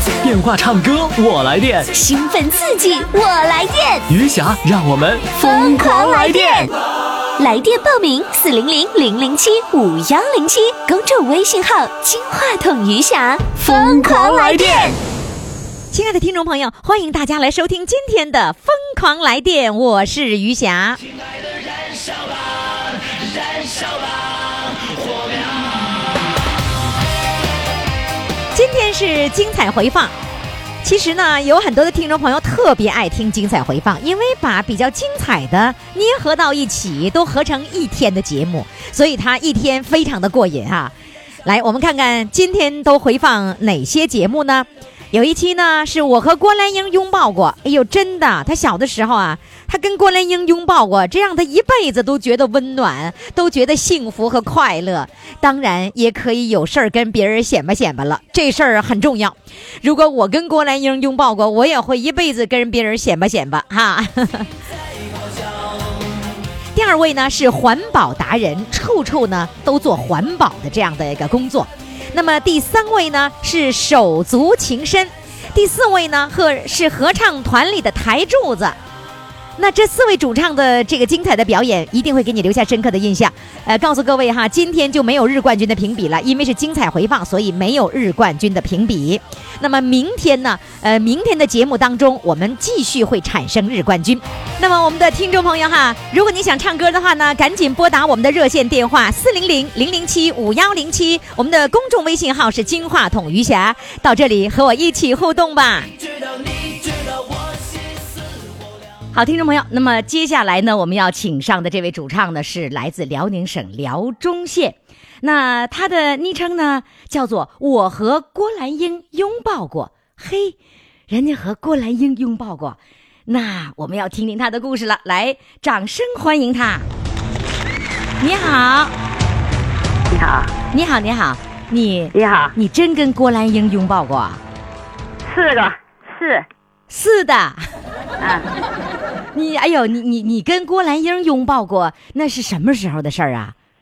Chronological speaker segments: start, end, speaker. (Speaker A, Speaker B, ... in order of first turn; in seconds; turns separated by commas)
Speaker A: 0.2-1.9, Speaker B: 1.9-4.1, Speaker A: 4.1-6.7, Speaker B: 5.3-6.7, Speaker B: 7.4-15.0, Speaker A: 13.6-14.9, Speaker C: 15.9-21.0, Speaker C: 28.5-30.1, Speaker C: 30.8-40.9, Speaker C: 41.4-64.5, Speaker C: 66.7-78.8, Speaker C: 79.6-105.9, Speaker C: 109.1-120.6, Speaker C: 121.1-126.9, Speaker C: 128.2-128.9, Speaker D: 130.1-130.5, Speaker C: 130.7-134.4, Speaker D: 132.1-132.5, Speaker D: 135.2-136.5, Speaker C: 136.9-137.6, Speaker D: 138.2-138.5, Speaker C: 139.3-143.5